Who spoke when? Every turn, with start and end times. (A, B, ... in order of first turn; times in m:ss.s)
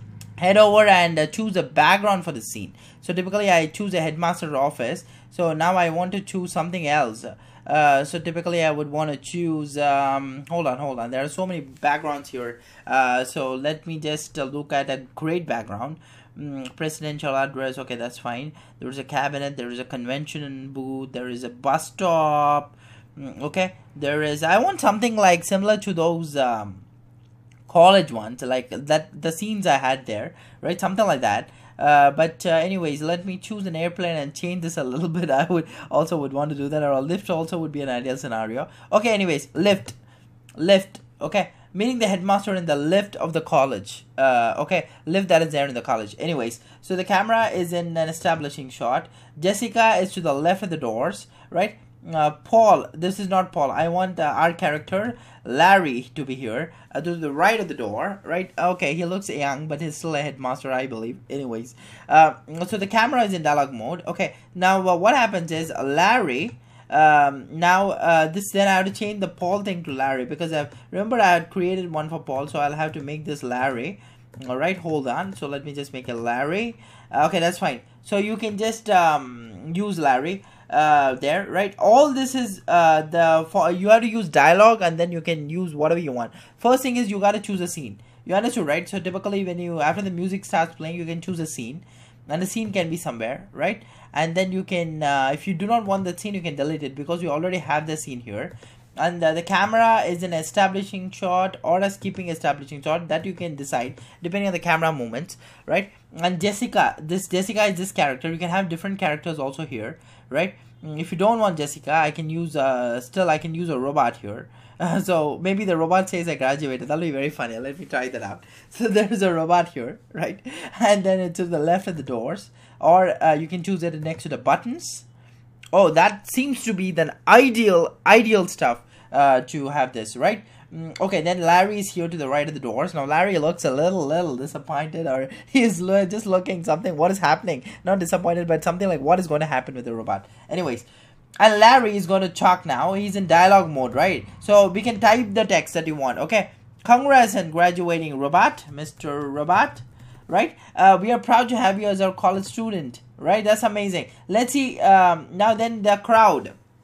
0:00.4-0:26.8 A
0:27.7-0:40.0 A
0:40.6-2:05.0 A
2:05.7-2:20.9 A
2:21.4-2:36.6 A